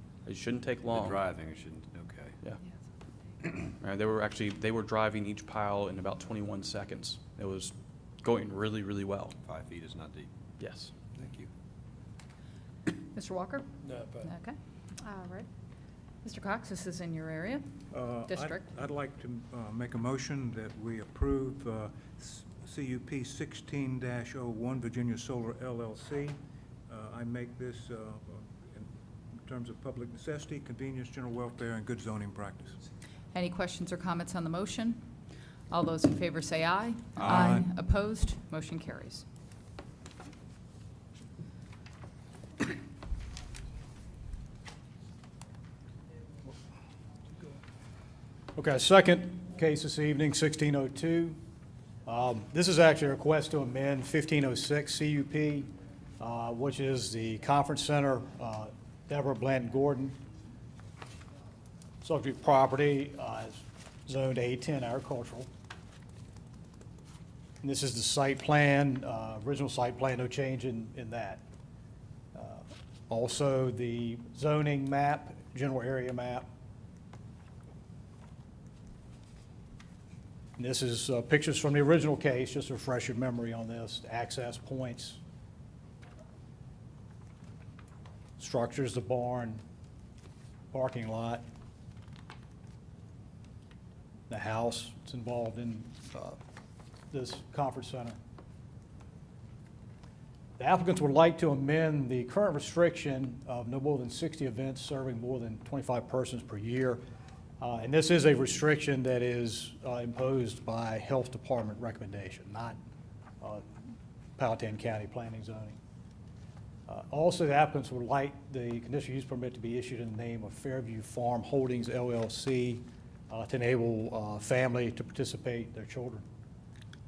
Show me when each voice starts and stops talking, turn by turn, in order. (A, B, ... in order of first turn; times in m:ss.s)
0:00.3-0:01.2 A
0:00.9-0:02.4 B
0:03.6-0:09.4 A
0:09.4-0:10.3 B
0:10.6-0:10.9 A
0:11.2-0:11.5 B
0:13.1-0:15.5 C
0:16.2-0:17.6 C
0:17.9-0:32.8 D
0:18.3-0:18.7 C
0:33.3-0:35.0 C
0:35.7-0:39.3 C
0:37.2-0:37.5 B
0:37.2-0:37.7 D
0:48.6-0:51.4 E
0:52.1-1:00.2 E
1:02.0-1:05.5 E
1:07.6-1:11.4 E
1:12.3-1:16.5 E
1:20.6-1:25.2 E
1:28.4-1:29.6 E
1:30.7-1:31.4 E
1:34.3-1:36.4 E
1:37.1-1:38.2 E
1:40.6-1:47.0 E
1:47.6-1:52.8 E
1:54.4-1:55.8 E
1:56.9-2:06.2 E